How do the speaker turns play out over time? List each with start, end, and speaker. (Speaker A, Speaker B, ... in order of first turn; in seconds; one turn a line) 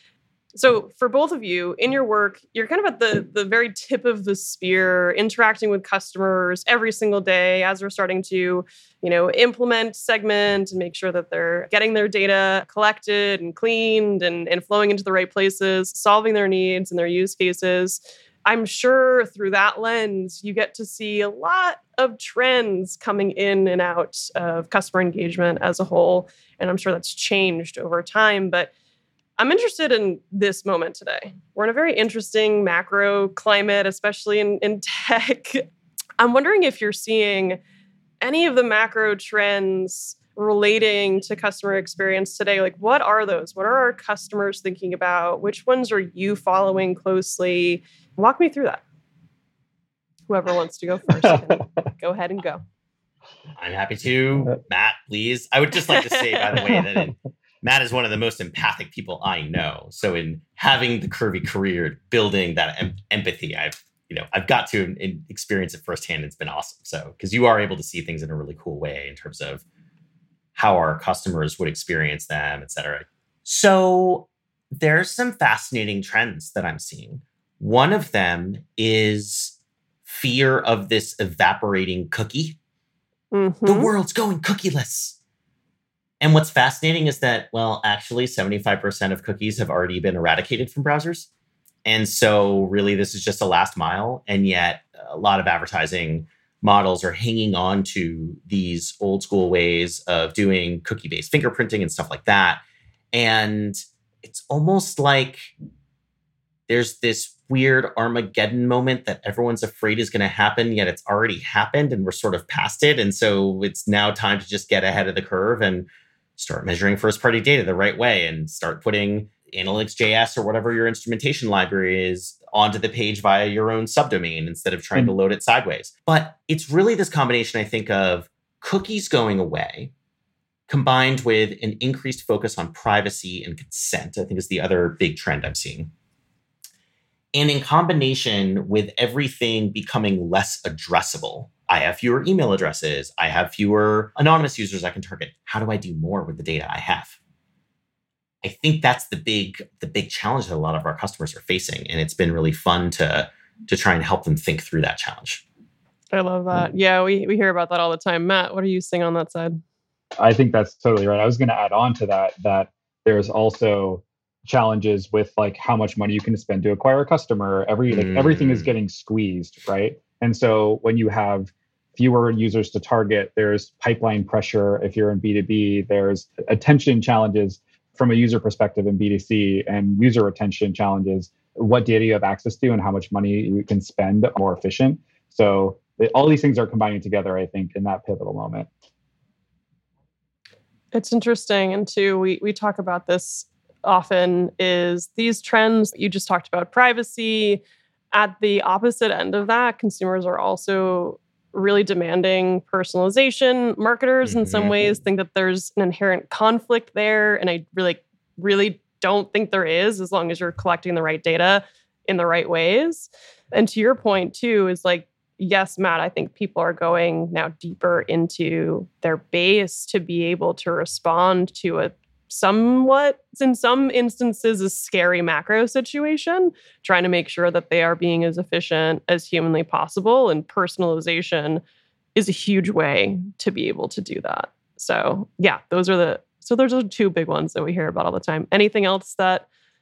Speaker A: 0.5-28.7
Speaker A: 29.4-35.6
Speaker A: 36.2-37.6
Speaker A: 38.2-48.8
Speaker A: 50.3-52.6
Speaker B: 53.6-69.6
Speaker A: 55.9-56.7
Speaker B: 70.5-82.6
Speaker A: 83.3-83.9
Speaker B: 83.7-85.2
Speaker B: 86.2-91.3
Speaker B: 91.8-102.6
Speaker B: 103.1-105.5
Speaker B: 106.7-129.9
Speaker B: 130.7-135.9
Speaker B: 137.3-147.2
Speaker B: 148.4-155.4
Speaker A: 156.1-159.6
Speaker C: 160.2-188.7
Speaker B: 167.9-168.7
Speaker A: 190.9-197.6
Speaker A: 198.1-231.6
Speaker B: 204.2-204.9
Speaker A: 232.1-239.5